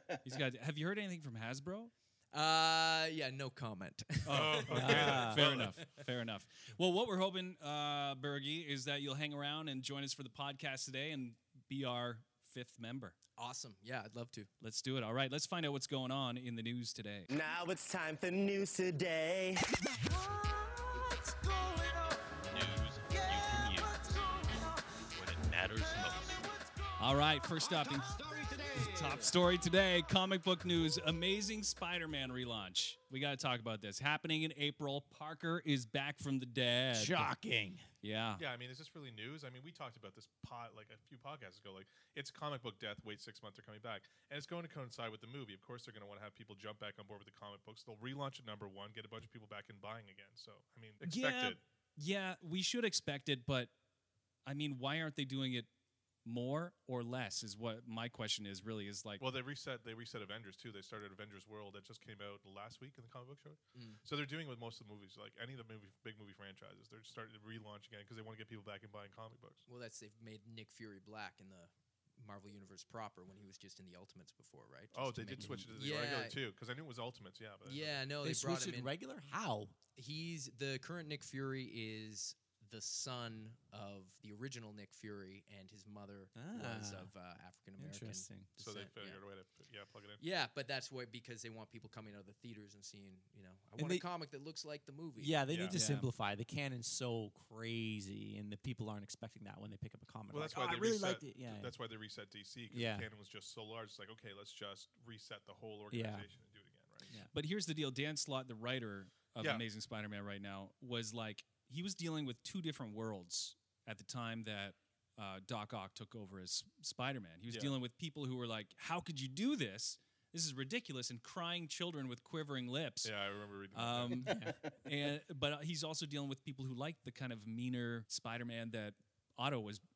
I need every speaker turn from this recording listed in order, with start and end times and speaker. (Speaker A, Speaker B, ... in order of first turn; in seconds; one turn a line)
Speaker A: 0.2-1.9
Speaker B: 2.3-5.1
Speaker A: 4.2-13.2
Speaker C: 4.3-5.8
Speaker D: 4.7-5.5
Speaker B: 13.4-14.5
Speaker A: 14.6-17.3
Speaker E: 17.3-26.9
Speaker A: 27.0-28.2
Speaker E: 27.6-29.3
Speaker A: 28.7-37.3
Speaker D: 36.9-37.8
Speaker A: 38.0-38.4
Speaker C: 38.4-51.6
Speaker A: 51.0-53.7
Speaker A: 54.5-55.7
Speaker A: 56.2-59.2
Speaker C: 59.2-69.6
Speaker B: 63.7-64.0
Speaker B: 69.7-76.4
Speaker C: 74.9-78.1
Speaker D: 75.3-75.7
Speaker B: 77.6-78.9
Speaker D: 78.2-79.8
Speaker B: 80.0-89.2
Speaker D: 86.3-87.1
Speaker D: 87.8-88.5
Speaker C: 88.6-90.2
Speaker B: 90.2-95.5
Speaker D: 93.8-94.0
Speaker D: 95.2-101.7
Speaker C: 95.5-95.8
Speaker A: 95.7-96.1
Speaker C: 100.3-107.1
Speaker D: 102.7-103.1
Speaker D: 105.9-106.3
Speaker A: 107.3-123.1
Speaker C: 117.5-117.7
Speaker C: 123.0-124.4
Speaker A: 123.7-129.8
Speaker D: 124.2-124.5